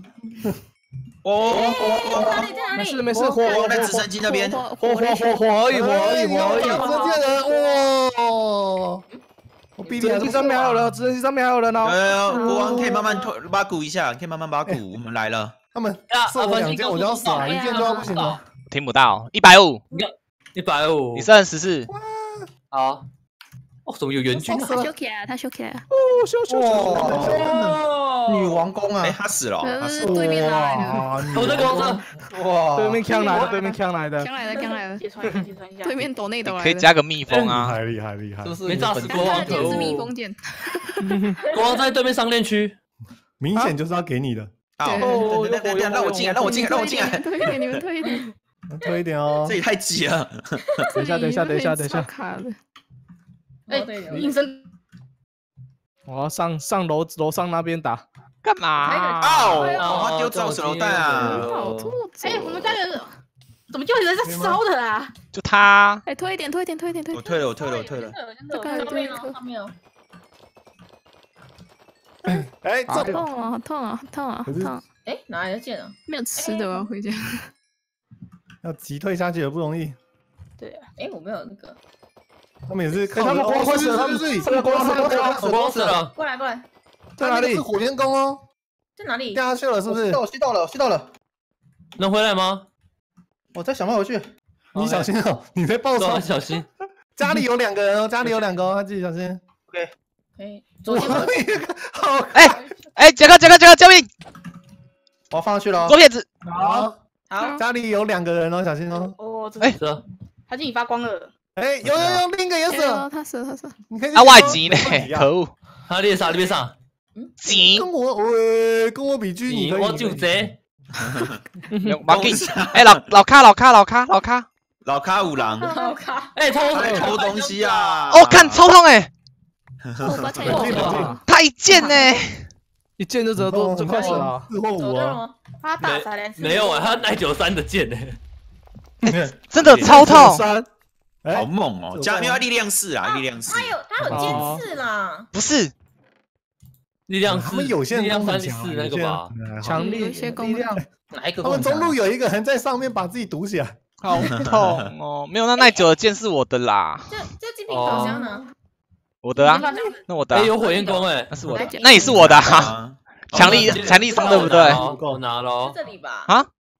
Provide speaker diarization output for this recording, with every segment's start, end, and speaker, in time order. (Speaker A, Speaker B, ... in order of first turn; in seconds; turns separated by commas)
Speaker A: 1.2-2.7, Speaker B: 1.4-3.9, Speaker C: 1.5-2.6, Speaker D: 2.6-4.1, Speaker E: 3.4-5.5, Speaker A: 3.4-4.7, Speaker D: 4.8-6.7, Speaker F: 5.7-9.0, Speaker B: 6.2-7.9, Speaker F: 9.8-10.8, Speaker B: 9.8-10.6, Speaker D: 10.0-12.0, Speaker A: 11.8-15.6, Speaker E: 12.3-13.0, Speaker B: 12.3-12.9, Speaker F: 15.7-18.4, Speaker G: 16.1-18.4, Speaker H: 18.7-19.8, Speaker G: 19.9-21.3, Speaker H: 21.1-21.9, Speaker F: 21.9-22.5, Speaker G: 22.7-23.0, Speaker G: 23.9-24.9, Speaker F: 24.3-24.9, Speaker E: 24.6-25.9, Speaker D: 25.9-27.3, Speaker C: 26.5-29.2, Speaker F: 27.0-27.4, Speaker G: 27.2-27.8, Speaker B: 27.6-28.6, Speaker A: 29.0-30.8, Speaker E: 29.6-31.9, Speaker F: 30.0-31.8, Speaker G: 31.3-32.0, Speaker C: 31.4-33.5, Speaker D: 32.8-34.3, Speaker E: 33.0-33.5, Speaker E: 34.1-36.9, Speaker I: 35.0-36.0, Speaker H: 36.4-37.8, Speaker F: 37.3-38.6, Speaker C: 38.4-39.9, Speaker G: 38.6-40.1, Speaker E: 39.1-41.2, Speaker B: 39.2-40.0, Speaker D: 41.0-41.4, Speaker G: 41.5-42.8, Speaker F: 43.4-44.5, Speaker A: 44.8-47.8, Speaker E: 44.8-45.3, Speaker D: 45.0-46.6, Speaker E: 46.3-48.2, Speaker F: 48.7-49.6, Speaker A: 49.5-50.7, Speaker E: 50.9-52.5, Speaker D: 51.0-52.1, Speaker B: 53.7-54.3, Speaker I: 53.7-54.7, Speaker D: 56.1-58.0, Speaker H: 58.4-59.6, Speaker B: 58.8-59.9, Speaker A: 59.2-61.5, Speaker G: 59.8-62.0, Speaker E: 61.2-62.8, Speaker I: 62.2-63.1, Speaker I: 63.7-65.1, Speaker F: 64.2-64.6, Speaker H: 65.3-66.0, Speaker E: 66.0-67.6, Speaker A: 67.1-68.2, Speaker I: 67.6-69.0, Speaker E: 68.4-69.3, Speaker B: 68.7-69.7, Speaker F: 72.2-73.3, Speaker E: 72.3-74.8, Speaker F: 74.4-74.8, Speaker B: 75.0-76.8, Speaker E: 76.1-77.5, Speaker F: 78.6-80.0, Speaker I: 80.6-80.9, Speaker B: 81.0-81.8, Speaker F: 82.7-85.6, Speaker D: 83.1-85.3, Speaker C: 83.3-86.0, Speaker G: 85.4-86.1, Speaker B: 86.1-86.7, Speaker D: 87.2-87.7, Speaker F: 87.2-88.4, Speaker B: 89.0-89.4, Speaker F: 89.3-90.2, Speaker C: 89.8-91.1, Speaker G: 92.0-92.7, Speaker C: 93.5-94.3, Speaker G: 94.7-95.1, Speaker F: 94.7-99.4, Speaker G: 96.0-96.7, Speaker B: 100.4-101.4, Speaker F: 100.9-102.6, Speaker H: 102.3-104.1, Speaker C: 105.3-106.0, Speaker H: 105.8-106.3, Speaker D: 106.5-106.8, Speaker F: 106.6-107.0, Speaker B: 107.3-107.6, Speaker F: 107.5-109.1, Speaker I: 108.9-109.7, Speaker G: 109.8-110.0, Speaker I: 110.5-111.3, Speaker F: 111.5-113.1, Speaker G: 111.8-112.2, Speaker E: 112.7-113.8, Speaker F: 113.9-115.3, Speaker H: 114.1-115.5, Speaker G: 115.9-116.7, Speaker H: 117.4-117.9, Speaker F: 117.5-120.5, Speaker G: 119.5-120.6, Speaker A: 121.0-121.4, Speaker D: 121.7-122.0, Speaker H: 121.8-124.5, Speaker A: 122.1-123.0, Speaker A: 124.8-125.7, Speaker B: 125.6-126.3, Speaker G: 126.3-127.9, Speaker A: 126.7-128.7, Speaker H: 128.1-129.1, Speaker A: 129.8-130.6, Speaker E: 130.0-131.2, Speaker F: 130.4-131.2, Speaker G: 130.5-131.1, Speaker H: 131.3-132.5, Speaker D: 133.0-134.5, Speaker F: 133.3-135.2, Speaker B: 134.0-135.4, Speaker I: 135.6-137.0, Speaker G: 135.8-138.2, Speaker F: 139.1-139.3, Speaker H: 139.1-140.4, Speaker G: 139.6-139.9, Speaker D: 139.8-140.7, Speaker F: 141.2-142.4, Speaker A: 141.3-144.4, Speaker B: 143.0-145.3, Speaker D: 144.1-144.6, Speaker H: 145.3-145.7, Speaker G: 147.1-149.3, Speaker F: 147.2-150.9, Speaker D: 149.6-150.2, Speaker E: 149.7-150.8, Speaker C: 151.1-152.0, Speaker F: 151.4-153.8, Speaker H: 154.0-157.2, Speaker A: 154.2-154.9, Speaker B: 155.5-155.9, Speaker B: 157.1-158.5, Speaker G: 157.7-158.2, Speaker E: 157.8-158.4, Speaker H: 159.2-160.5, Speaker I: 159.3-160.0, Speaker G: 160.3-161.4, Speaker B: 160.5-162.2, Speaker H: 161.3-164.8, Speaker E: 161.5-162.7, Speaker A: 162.0-164.0, Speaker G: 163.3-165.8, Speaker F: 164.3-165.2, Speaker B: 165.6-166.3